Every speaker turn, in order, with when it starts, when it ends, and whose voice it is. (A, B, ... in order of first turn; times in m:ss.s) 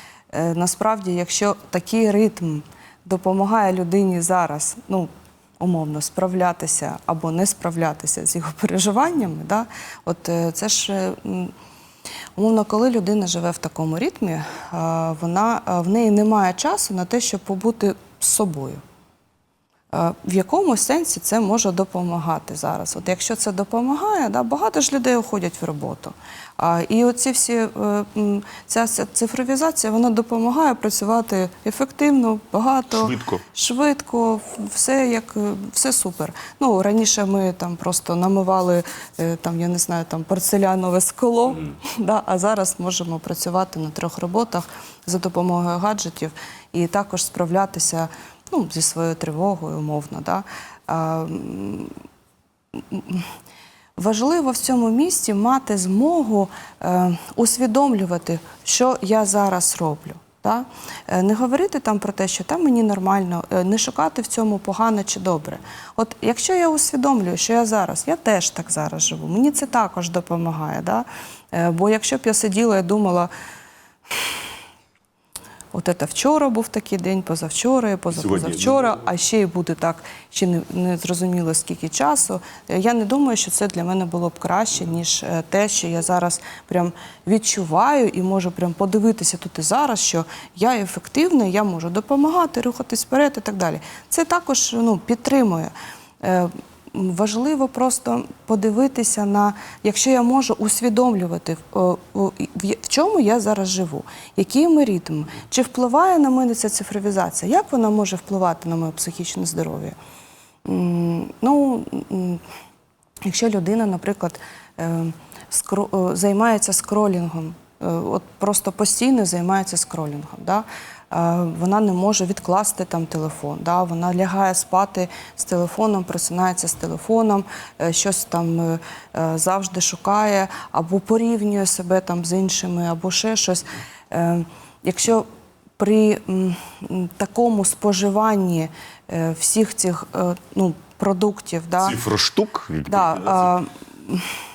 0:00.3-0:11.5 A
0:12.4-0:18.8 A
0:19.9-0:51.9 A
0:32.9-0:33.4 B
0:52.8-0:53.3 A
0:54.0-1:13.3 A
1:15.7-1:49.9 A
1:18.1-1:19.1 B
1:50.6-1:52.4 A
1:53.2-2:15.2 A
2:15.8-2:22.0 A
2:21.8-2:23.5 B
2:22.9-2:24.3 A